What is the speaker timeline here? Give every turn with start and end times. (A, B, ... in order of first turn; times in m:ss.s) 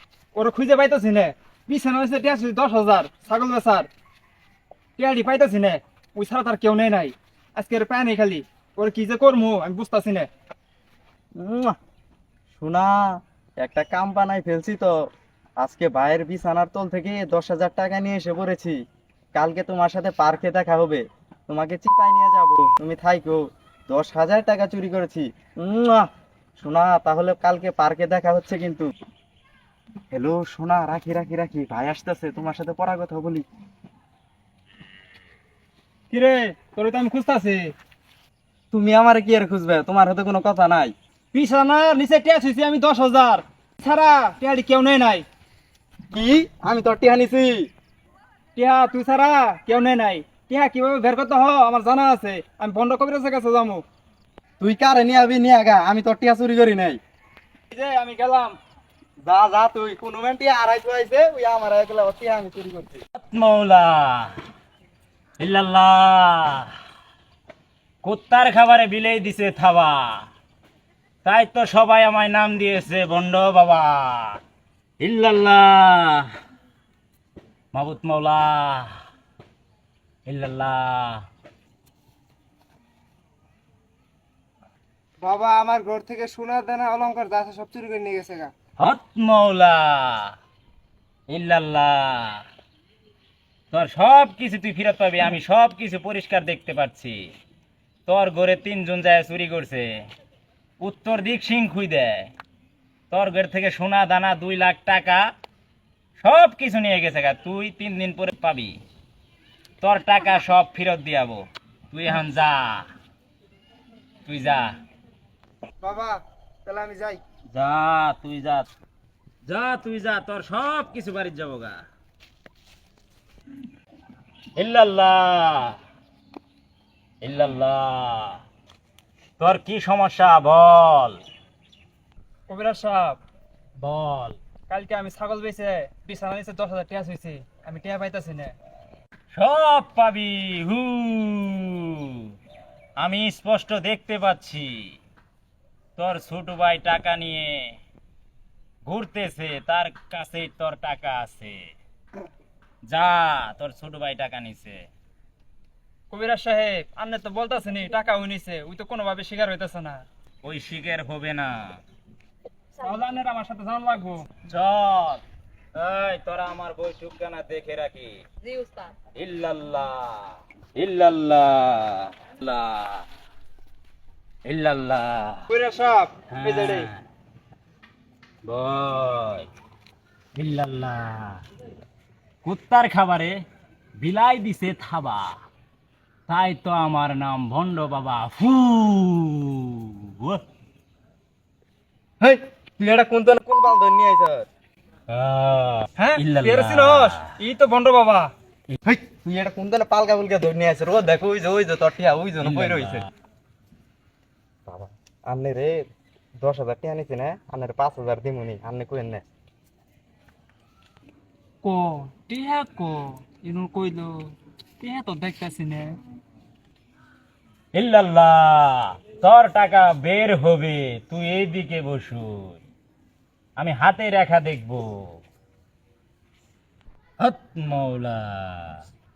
0:00.4-0:03.9 A
0:05.0-0:10.3 A
0:11.4-0:11.8 B
0:12.6-0:15.0 B
0:15.6-0:18.8 B
0:19.4-0:26.1 B
0:26.6-0:28.9 B
0:30.1-0:33.5 B
0:36.1-0:37.7 A
0:38.7-0:40.9 B
0:41.3-0:45.2 A
0:46.1-0:47.7 B
0:48.6-0:53.8 A
0:54.6-0:57.0 B
0:57.7-0:58.6 A
0:59.2-1:03.0 B
1:03.2-1:04.3 C
1:05.4-1:06.7 C
1:08.0-1:10.2 C
1:11.2-1:14.4 C
1:15.0-1:16.3 C
1:17.7-1:18.9 C
1:20.3-1:21.2 C
1:25.2-1:28.5 A
1:28.8-1:30.3 C
1:31.3-1:32.4 C
1:33.7-1:37.2 C
1:38.1-1:39.9 C
1:40.8-1:42.3 C
1:43.1-1:45.2 C
1:46.2-1:48.8 C
1:49.8-1:51.4 C
1:51.9-1:52.9 C
1:54.3-1:54.7 C
1:55.8-1:57.2 A
1:57.5-1:58.7 C
1:59.5-2:01.8 C
2:04.6-2:05.8 C
2:07.2-2:08.4 C
2:09.4-2:11.2 C
2:12.5-2:13.2 A
2:13.8-2:14.4 C
2:14.7-2:18.5 A
2:19.3-2:22.3 C
2:23.0-2:24.7 C
2:26.0-2:27.7 C
2:28.9-2:31.6 C
2:32.9-2:34.9 C
2:36.1-2:40.0 A
2:40.4-2:41.8 C
2:42.8-2:44.3 A
2:44.5-2:45.2 C
2:45.8-2:48.2 C
2:49.2-2:53.0 C
2:54.5-2:55.4 C
2:55.5-2:56.9 A
2:56.3-2:57.0 C
2:58.5-2:59.5 C
3:00.4-3:01.4 C
3:02.4-3:03.4 C
3:04.0-3:05.4 C
3:06.3-3:10.4 C
3:12.2-3:14.5 B
3:15.1-3:17.2 C
3:16.0-3:18.3 A
3:18.8-3:23.1 B
3:22.4-3:23.1 C
3:24.7-3:25.8 B
3:26.4-3:29.2 B
3:31.6-3:34.1 A
3:34.8-3:36.0 A
3:37.7-3:42.6 C
3:43.6-3:45.2 C
3:47.2-3:48.8 C